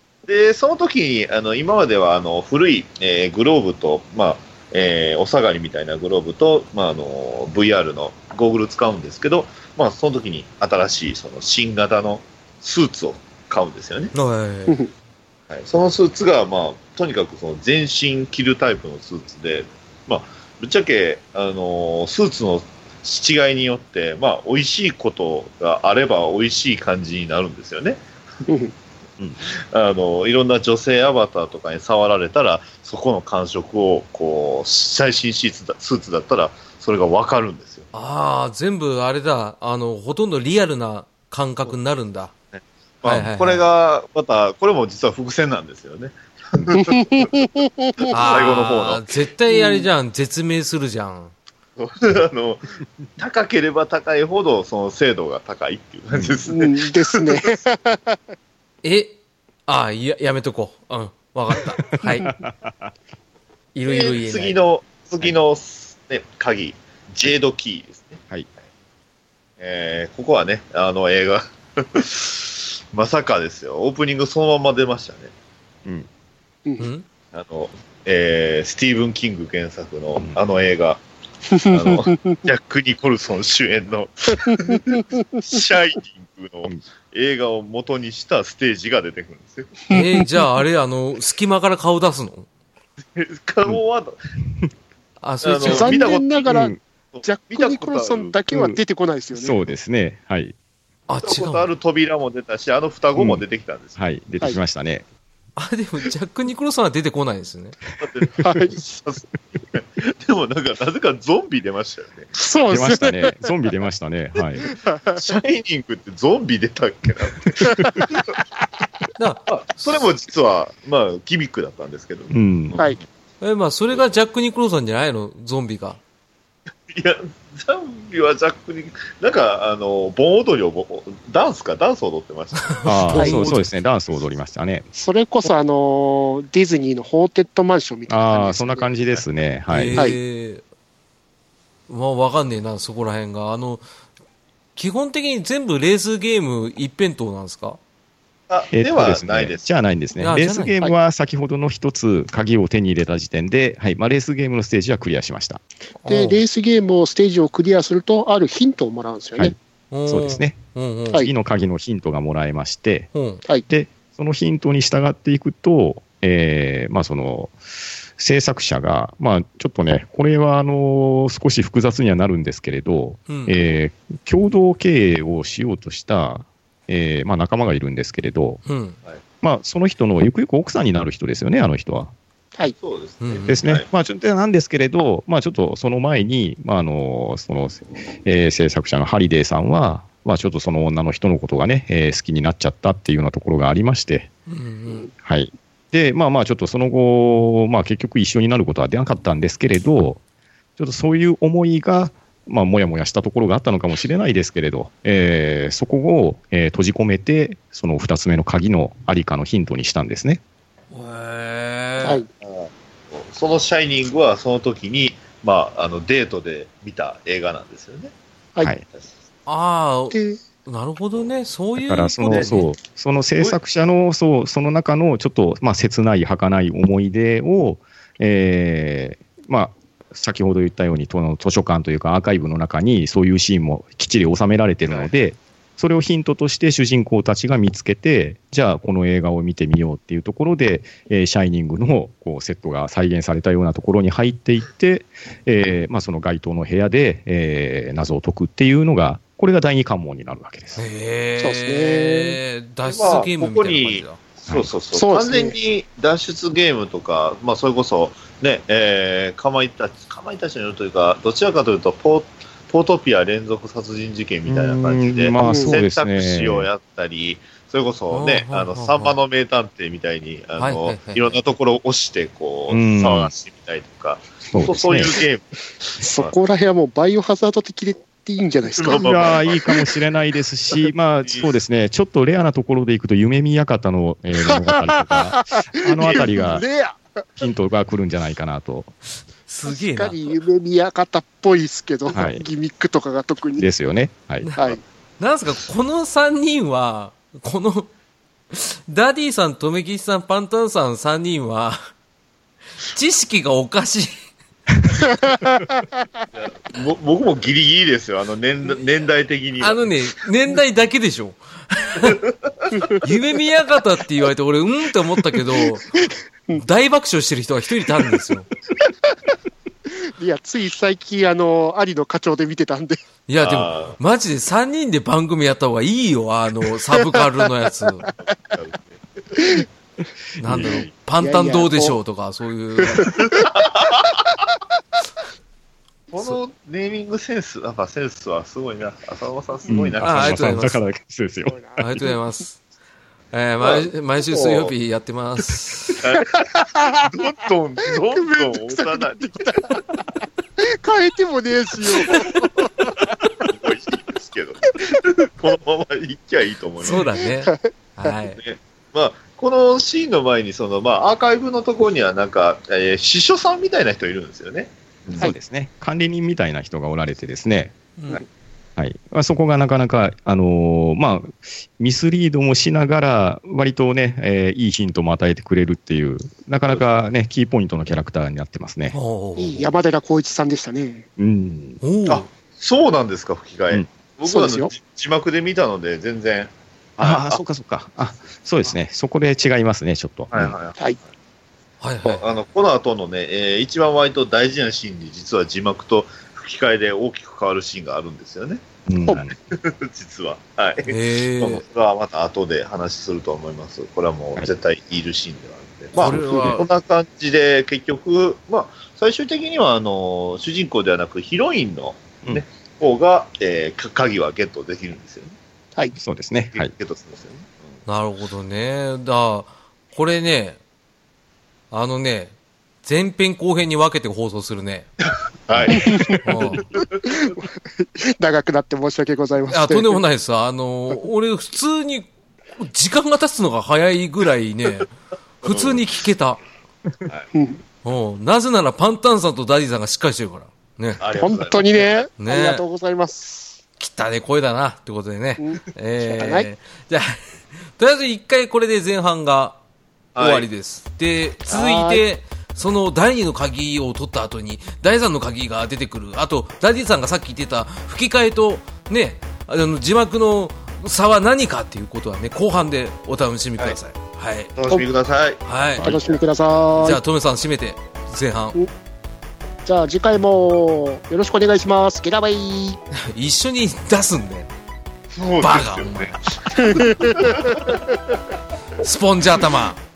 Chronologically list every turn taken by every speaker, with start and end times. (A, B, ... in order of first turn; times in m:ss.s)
0:00.3-0:14.1 A
0:14.1-0:14.8 B
0:15.5-0:28.0 A
0:28.5-0:28.7 C
0:29.5-0:37.9 A
0:37.9-0:42.3 B
0:42.5-0:47.3 A
0:43.0-0:43.6 B
0:46.7-0:48.1 C
0:48.0-0:49.1 A
0:48.1-0:51.3 B
0:49.5-0:49.9 C
0:51.8-0:52.6 A
0:53.2-0:57.6 A
0:56.5-0:58.2 C
0:58.8-0:59.2 B
0:59.7-1:02.3 B
1:02.2-1:02.9 D
1:03.8-1:04.6 B
1:03.8-1:08.2 A
1:09.6-1:15.3 A
1:16.8-1:17.0 B
1:17.3-1:21.0 A
1:21.5-1:22.4 C
1:21.7-1:29.8 A
1:29.9-1:30.4 C
1:29.9-1:32.5 B
1:33.1-1:34.2 A
1:35.2-1:36.1 B
1:35.4-1:36.5 A
1:35.7-1:39.6 C
1:36.5-1:36.8 D
1:37.1-1:38.4 A
1:38.5-1:38.8 D
1:39.4-1:40.5 D
1:41.1-1:41.7 B
1:41.2-1:44.0 A
1:43.2-1:43.4 D
1:44.0-1:45.0 D
1:45.6-1:47.8 B
1:48.0-1:52.3 A
1:48.4-1:48.8 C
1:52.4-1:53.4 C
1:52.7-1:54.7 D
1:54.6-1:55.2 C
1:55.2-1:58.3 A
1:57.6-1:58.4 C
1:59.2-2:00.0 B
1:59.5-2:03.0 A
2:02.3-2:02.8 D
2:03.4-2:06.0 B
2:06.9-2:13.0 A
2:12.7-2:13.6 B
2:12.8-2:14.9 D
2:13.1-2:13.5 C
2:15.0-2:18.9 C
2:18.1-2:20.0 D
2:19.7-2:20.6 B
2:21.9-2:23.8 B
2:24.8-2:27.8 B
2:28.5-2:29.7 A
2:28.7-2:35.6 D
2:30.2-2:31.0 B
2:36.0-2:36.4 B
2:36.1-2:39.6 C
2:39.9-2:41.3 B
2:40.1-2:40.6 D
2:41.2-2:43.1 D
2:43.1-2:43.4 B
2:43.7-2:47.6 D
2:48.2-2:58.6 D
2:53.3-2:53.6 B
2:58.6-2:59.0 B
2:59.4-3:02.1 D
3:02.8-3:03.8 A
3:03.2-3:03.5 B
3:03.5-3:14.3 D
3:14.5-3:15.1 B
3:15.2-3:20.2 D
3:20.8-3:30.4 D
3:30.9-3:32.2 B
3:32.0-3:32.3 C
3:32.4-3:38.1 A
3:38.9-3:39.2 A
3:39.5-3:42.7 B
3:40.1-3:40.4 C
3:41.8-4:10.8 D
3:42.2-3:42.5 A
4:10.8-4:14.2 B
4:11.4-4:12.4 C
4:12.8-4:36.4 A
4:14.9-4:15.6 C
4:24.5-4:26.7 D
4:25.4-4:25.8 C
4:28.1-4:29.2 B
4:30.6-4:31.4 B
4:32.7-4:33.3 D
4:34.5-4:35.2 D
4:36.0-4:39.7 C
4:38.7-4:39.9 A
4:38.9-4:46.6 D
4:41.2-4:41.5 A
4:44.4-4:47.4 C
4:47.4-4:48.9 D
4:49.5-4:50.3 B
4:49.6-4:53.7 C
4:52.1-4:52.4 D
4:53.6-4:54.5 D
4:54.4-4:57.9 B
4:54.6-4:54.8 C
4:58.5-5:01.9 B
5:02.9-5:04.2 B
5:05.0-5:06.1 C
5:06.3-5:09.9 A
5:09.6-5:12.2 B
5:12.0-5:12.5 A
5:12.8-5:13.0 C
5:13.0-5:15.8 B
5:15.5-5:16.6 C
5:16.5-5:18.5 B
5:20.2-5:23.0 C
5:23.3-5:28.1 B
5:23.4-5:24.0 A
5:28.2-5:29.0 A
5:29.4-5:29.7 C
5:30.4-5:33.2 B
5:30.4-5:30.9 D
5:30.5-5:32.0 C
5:32.9-5:33.5 C
5:33.2-5:34.2 A
5:36.1-5:40.6 A
5:39.7-5:41.8 D
5:40.0-5:40.8 B
5:41.5-5:41.8 C
5:41.8-5:42.6 B
5:43.3-5:46.0 B
5:43.6-5:44.7 A
5:46.0-5:46.4 A
5:46.2-5:47.1 C
5:47.1-5:49.4 A
5:47.9-5:50.0 C
5:50.6-5:53.0 C
5:52.1-5:52.4 A
5:53.4-5:57.1 A
5:56.8-5:58.4 B
5:57.4-5:57.7 C
5:58.4-6:05.3 A
6:05.2-6:07.8 D
6:08.8-6:19.0 D
6:18.9-6:19.7 B
6:19.4-6:21.1 C
6:21.2-6:21.8 D
6:21.8-6:22.3 B
6:22.1-6:27.4 A
6:24.3-6:24.7 C
6:27.0-6:30.6 D
6:30.3-6:31.1 A
6:31.8-6:32.2 B
6:32.1-6:38.6 A
6:38.9-6:39.4 D
6:39.5-6:55.3 A
6:40.9-6:41.6 B
6:46.0-6:46.7 B
6:56.0-6:56.7 D
6:56.5-6:57.6 A
6:57.9-7:00.6 B
7:01.7-7:04.9 B
7:05.0-7:07.3 A
7:05.5-7:05.8 D
7:05.7-7:06.2 C
7:06.2-7:06.7 B
7:06.8-7:10.0 C
7:09.5-7:12.1 B
7:12.6-7:14.9 B
7:15.4-7:15.8 A
7:15.4-7:16.4 B
7:17.3-7:17.6 C
7:17.8-7:21.0 B
7:21.0-7:22.1 A
7:21.2-7:23.6 C
7:22.2-7:22.6 B
7:23.8-7:27.2 B
7:25.4-7:26.5 C
7:27.8-7:29.6 B
7:30.2-7:30.5 A
7:30.2-7:44.6 B
7:31.5-7:32.0 C
7:44.6-7:46.2 A
7:45.4-7:46.0 B
7:45.8-7:47.0 C
7:46.8-7:48.6 B
7:49.6-7:52.8 C
7:53.0-7:54.5 B
7:55.1-7:57.7 A
7:55.4-7:56.2 B
7:56.5-7:58.2 C
7:58.8-7:59.8 B